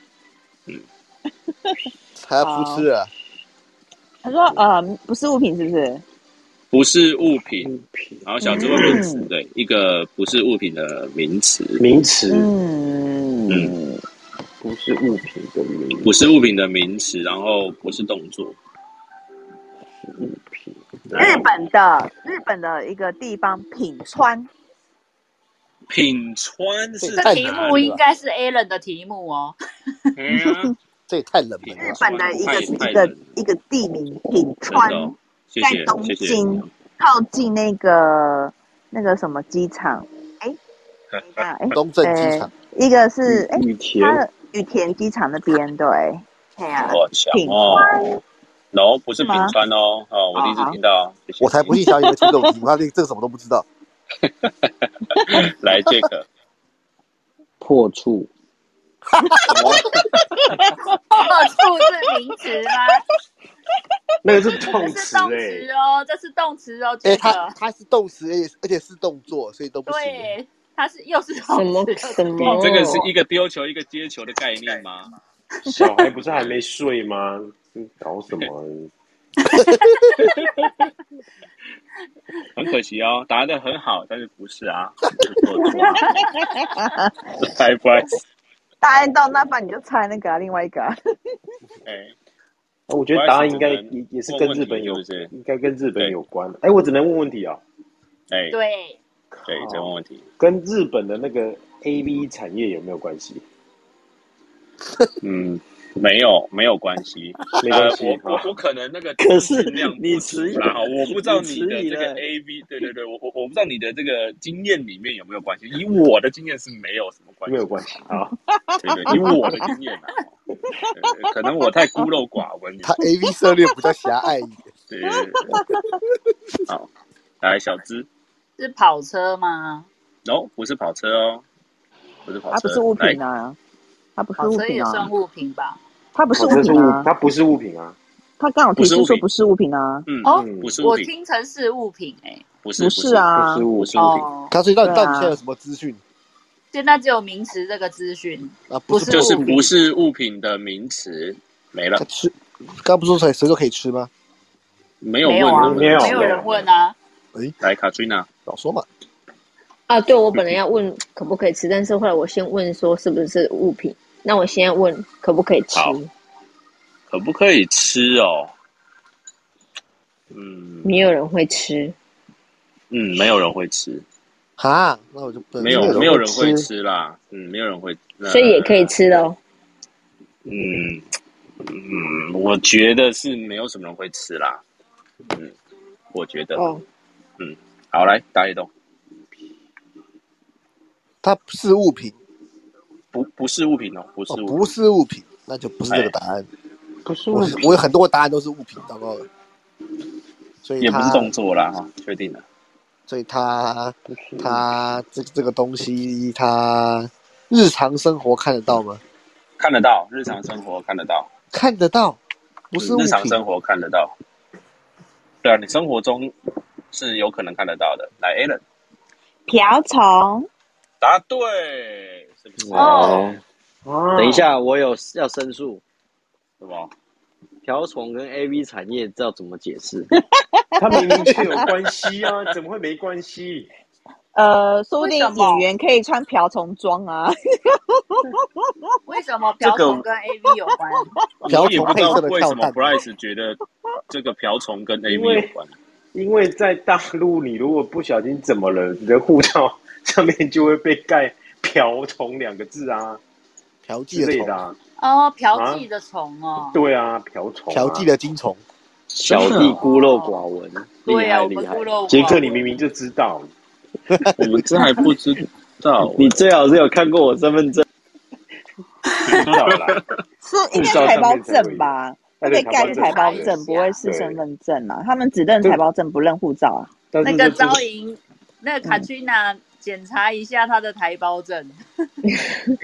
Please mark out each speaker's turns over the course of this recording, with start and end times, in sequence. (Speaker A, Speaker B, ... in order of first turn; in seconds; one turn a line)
Speaker A: 2.2-3.1
Speaker B: 2.4-2.9
Speaker B: 4.2-6.0
Speaker C: 6.7-7.7
Speaker D: 7.7-9.0
Speaker C: 8.2-11.8
Speaker B: 8.4-9.3
Speaker D: 11.8-12.5
Speaker B: 12.3-14.0
Speaker C: 13.5-13.7
Speaker D: 14.6-16.1
Speaker C: 16.0-18.6
Speaker E: 20.2-20.6
Speaker D: 21.1-21.4
Speaker C: 21.1-21.5
Speaker B: 21.2-24.5
Speaker C: 25.9-27.8
Speaker A: 27.0-28.0
Speaker F: 27.1-29.6
Speaker C: 30.2-30.7
Speaker A: 31.1-32.2
Speaker C: 31.7-33.2
Speaker B: 31.8-40.6
Speaker C: 34.7-36.7
Speaker B: 41.3-48.1
Speaker A: 41.7-42.5
Speaker D: 43.3-44.2
Speaker C: 46.8-48.0
Speaker C: 48.7-51.8
Speaker B: 49.2-49.5
Speaker B: 50.4-50.8
Speaker A: 51.4-53.6
Speaker C: 54.3-56.3
Speaker E: 57.6-58.3
Speaker C: 59.5-59.9
Speaker F: 61.1-63.0
Speaker D: 64.2-65.7
Speaker F: 64.7-67.6
Speaker A: 67.0-70.3
Speaker F: 69.9-72.9
Speaker G: 71.5-73.1
Speaker C: 72.4-75.1
Speaker D: 75.7-78.9
Speaker C: 76.3-76.6
Speaker F: 79.4-80.1
Speaker C: 80.2-80.7
Speaker C: 82.6-86.2
Speaker F: 85.6-86.6
Speaker C: 87.4-88.2
Speaker B: 88.8-91.0
Speaker C: 91.8-92.1
Speaker D: 92.9-97.6
Speaker C: 93.1-95.3
Speaker C: 98.3-98.6
Speaker F: 98.5-99.0
Speaker D: 99.3-103.4
Speaker C: 99.5-100.2
Speaker C: 105.2-117.7
Speaker D: 107.6-108.5
Speaker E: 109.2-112.2
Speaker D: 117.5-118.3
Speaker B: 118.7-119.2
Speaker C: 118.8-120.3
Speaker C: 120.9-123.0
Speaker A: 122.8-124.7
Speaker C: 124.9-125.6
Speaker C: 127.4-128.1
Speaker F: 128.6-129.9
Speaker C: 130.3-131.4
Speaker C: 132.3-133.2
Speaker B: 132.5-133.6
Speaker B: 134.2-135.1
Speaker F: 134.4-135.8
Speaker B: 136.2-137.1
Speaker D: 136.3-138.0
Speaker B: 138.4-140.1
Speaker C: 138.8-139.2
Speaker C: 140.1-141.1
Speaker F: 140.2-142.4
Speaker D: 140.3-140.8
Speaker C: 142.6-144.3
Speaker B: 142.8-143.7
Speaker D: 143.3-144.2
Speaker F: 143.9-144.5
Speaker A: 144.5-146.0
Speaker B: 144.8-145.3
Speaker F: 146.7-149.7
Speaker A: 148.7-149.6
Speaker C: 149.1-152.0
Speaker A: 152.0-154.1
Speaker C: 155.0-156.5
Speaker F: 155.2-156.9
Speaker D: 155.5-156.7
Speaker C: 157.6-158.3
Speaker A: 158.5-158.9
Speaker G: 159.9-166.1
Speaker C: 165.7-166.0
Speaker C: 167.1-168.5
Speaker C: 170.3-171.1
Speaker G: 170.8-172.0
Speaker C: 172.9-174.1
Speaker A: 174.6-176.2
Speaker C: 175.6-179.0
Speaker D: 175.6-176.6
Speaker G: 178.2-179.4
Speaker C: 180.5-181.0
Speaker C: 181.6-184.6
Speaker C: 186.1-186.7
Speaker G: 186.6-186.8
Speaker C: 187.4-188.7
Speaker A: 191.2-192.2
Speaker C: 193.1-194.6
Speaker A: 194.3-196.5
Speaker D: 197.1-197.8
Speaker A: 197.3-199.3
Speaker A: 200.6-201.3
Speaker C: 200.8-202.4
Speaker A: 203.1-209.0
Speaker D: 204.1-204.6
Speaker C: 209.6-211.3
Speaker A: 211.5-212.2
Speaker A: 212.7-213.4
Speaker C: 212.8-214.1
Speaker C: 215.4-216.3
Speaker C: 216.9-218.6
Speaker B: 219.5-220.5
Speaker C: 221.0-223.2
Speaker E: 222.6-223.4
Speaker F: 222.8-223.2
Speaker D: 223.9-224.5
Speaker E: 224.2-225.8
Speaker C: 226.6-226.9
Speaker E: 227.6-230.1
Speaker B: 230.6-231.3
Speaker D: 230.8-233.7
Speaker B: 234.3-238.2
Speaker F: 235.0-235.7
Speaker F: 239.1-241.1
Speaker C: 239.6-240.0
Speaker C: 241.4-245.8
Speaker A: 241.5-243.0
Speaker D: 245.1-245.5
Speaker D: 246.1-253.2
Speaker A: 253.8-254.6
Speaker D: 254.1-254.8
Speaker F: 255.0-256.8
Speaker D: 255.5-255.9
Speaker D: 256.7-258.1
Speaker A: 257.7-258.6
Speaker E: 259.1-261.9
Speaker D: 259.3-259.8
Speaker F: 259.6-260.4
Speaker F: 261.1-262.7
Speaker D: 262.1-263.5
Speaker C: 264.4-266.4
Speaker E: 266.1-267.9
Speaker D: 269.3-270.0
Speaker C: 269.3-270.0
Speaker B: 270.4-276.9
Speaker D: 270.7-274.4
Speaker F: 272.6-274.0
Speaker D: 277.1-277.9
Speaker F: 277.2-281.8